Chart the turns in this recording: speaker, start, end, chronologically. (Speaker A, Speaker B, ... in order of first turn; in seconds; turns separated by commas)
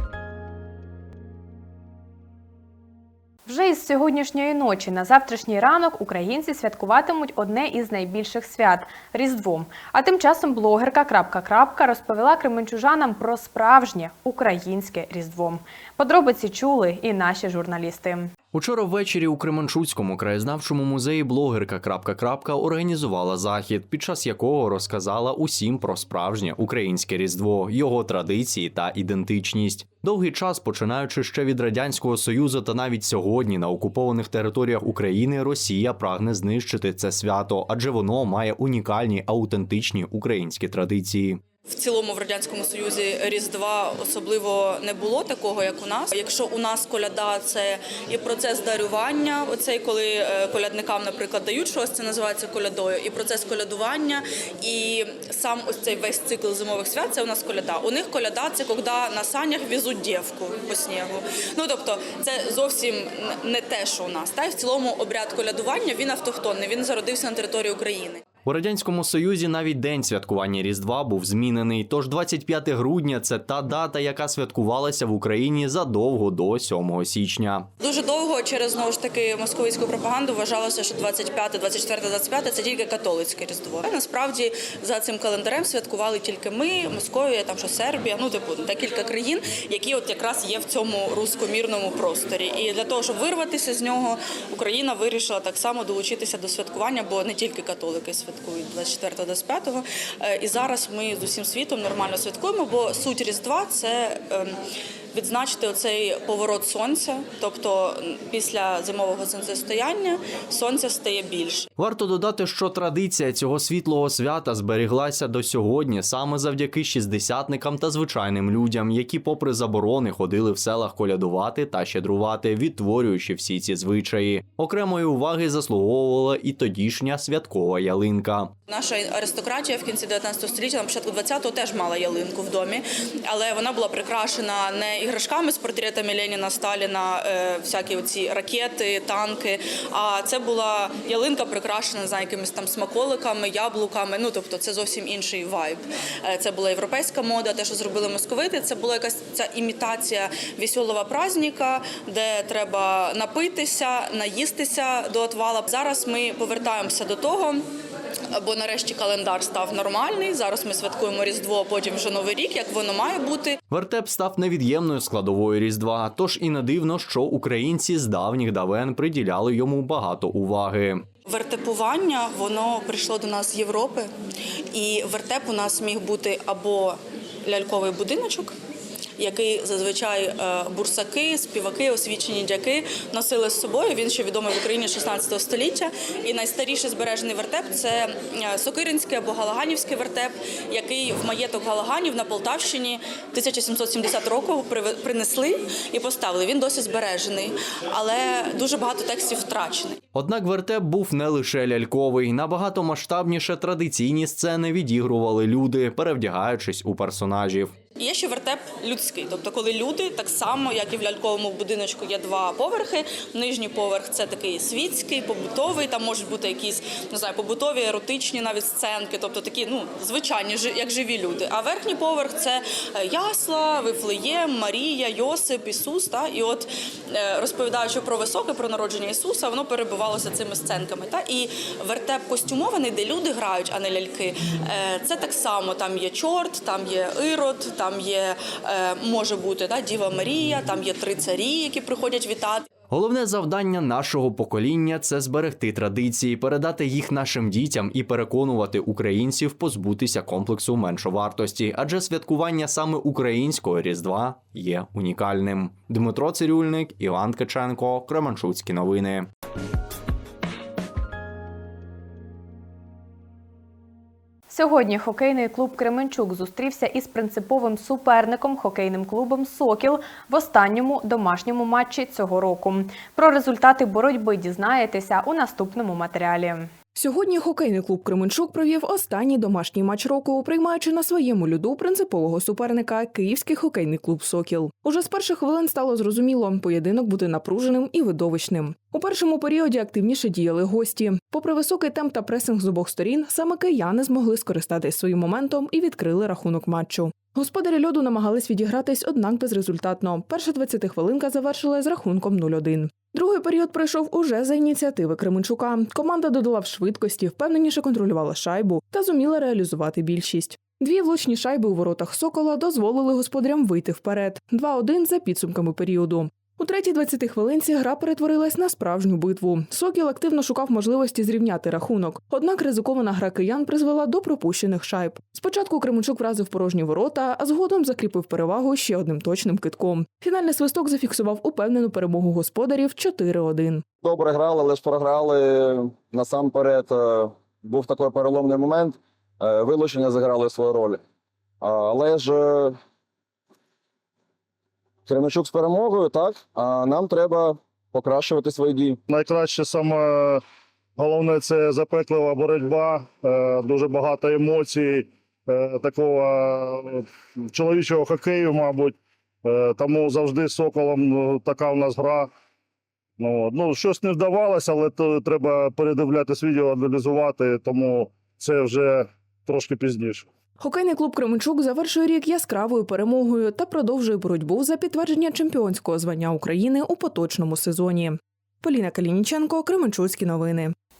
Speaker A: 3.5-18.3, Speaker B: 18.5-41.4, Speaker C: 41.7-68.2, Speaker B: 68.4-77.7, Speaker C: 77.8-104.6, Speaker C: 105.1-111.7, Speaker B: 111.8-128.5, Speaker C: 128.7-157.6, Speaker C: 158.3-163.6, Speaker B: 163.7-171.0, Speaker C: 171.2-174.1, Speaker C: 174.7-178.5, Speaker C: 179.2-200.0, Speaker B: 200.1-207.7, Speaker C: 208.0-242.7, Speaker B: 242.9-259.3, Speaker A: 264.5-276.7, Speaker D: 276.9-333.8, Speaker E: 334.0-341.0, Speaker E: 341.6-342.8, Speaker E: 345.1-349.0, Speaker F: 349.1-350.4, Speaker F: 351.0-362.3, Speaker F: 363.2-370.3, Speaker D: 370.6-380.7